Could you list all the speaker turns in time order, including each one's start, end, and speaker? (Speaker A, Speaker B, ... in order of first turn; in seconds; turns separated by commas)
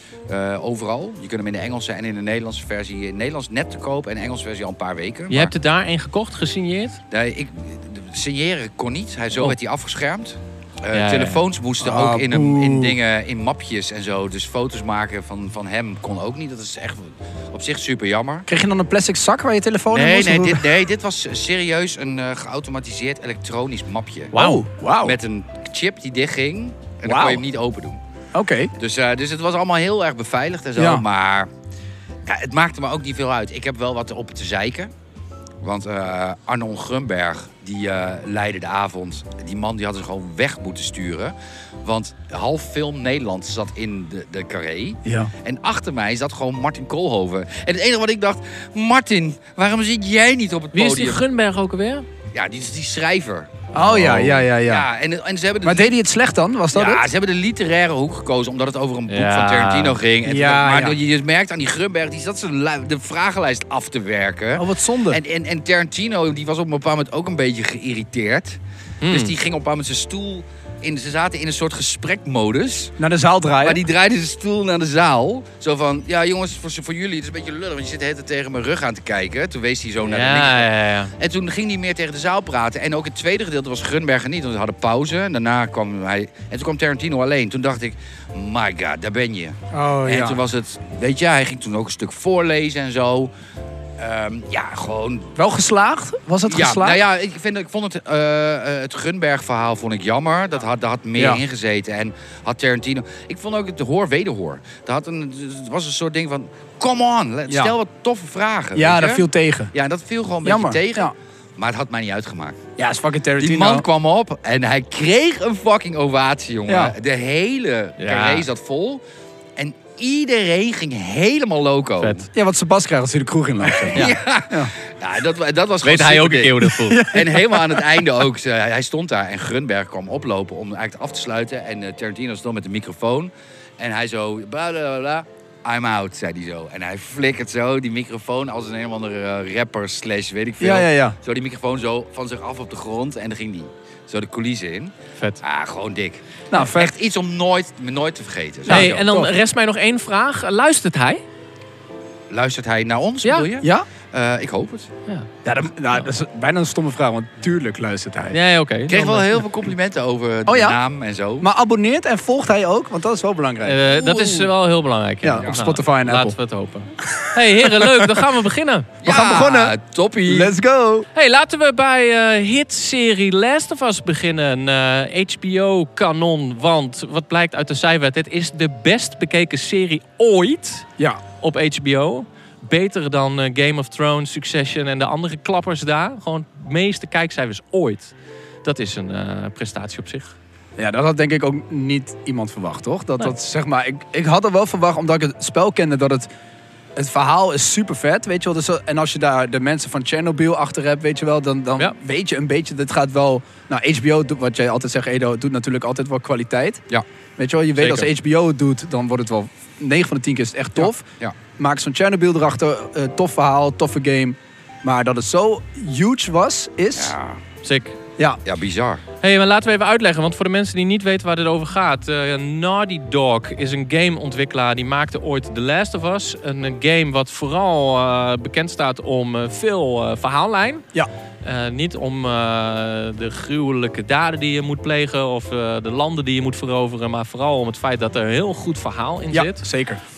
Speaker A: 0.3-5.5, Speaker B: 5.3-7.0, Speaker A: 7.1-18.5, Speaker B: 10.9-11.4, Speaker C: 11.8-13.0, Speaker C: 18.5-20.7, Speaker A: 19.9-24.4, Speaker B: 24.3-24.7, Speaker C: 24.4-25.2, Speaker A: 25.0-28.0, Speaker C: 27.1-27.4, Speaker C: 28.3-28.7, Speaker A: 28.8-31.5, Speaker C: 30.8-31.0, Speaker A: 32.2-34.9, Speaker A: 35.6-51.2, Speaker C: 45.0-45.3, Speaker B: 50.7-52.1, Speaker A: 52.3-55.9, Speaker C: 53.7-54.9, Speaker C: 55.6-57.1, Speaker A: 56.7-73.0, Speaker B: 59.1-60.0, Speaker C: 60.2-61.0, Speaker C: 64.5-65.2, Speaker B: 69.0-69.3, Speaker C: 73.0-73.8, Speaker A: 73.6-93.3, Speaker B: 80.0-81.1, Speaker C: 89.7-90.4, Speaker A: 94.0-95.3, Speaker C: 95.4-97.0, Speaker A: 96.5-112.6, Speaker C: 107.5-107.7, Speaker C: 108.8-109.7, Speaker C: 110.4-111.1, Speaker C: 112.8-113.9, Speaker A: 113.4-119.0, Speaker C: 116.7-116.9, Speaker B: 118.0-118.5, Speaker A: 119.6-122.3, Speaker B: 122.0-122.3, Speaker C: 122.3-124.7, Speaker A: 123.6-149.1, Speaker B: 125.8-127.1, Speaker C: 126.7-127.9, Speaker C: 140.6-141.2, Speaker C: 146.5-146.9, Speaker C: 148.7-149.3, Speaker B: 148.7-151.2, Speaker A: 152.3-154.9, Speaker B: 153.2-153.5, Speaker C: 153.6-153.9, Speaker C: 155.4-158.4, Speaker B: 158.3-159.4, Speaker A: 158.9-161.5, Speaker C: 160.5-160.8, Speaker C: 161.4-164.4, Speaker B: 163.6-168.9, Speaker C: 165.2-166.4, Speaker C: 167.0-168.2, Speaker A: 169.0-170.5, Speaker C: 169.0-171.1, Speaker B: 171.2-180.9, Speaker B: 181.4-188.1, Speaker B: 188.6-190.4, Speaker C: 190.8-196.3, Speaker C: 197.0-206.8, Speaker C: 207.4-211.1, Speaker B: 207.8-208.1, Speaker C: 211.6-217.1, Speaker A: 216.9-217.4, Speaker B: 217.6-218.0, Speaker A: 218.4-219.0, Speaker B: 219.2-230.8, Speaker B: 231.4-239.7, Speaker C: 239.3-240.0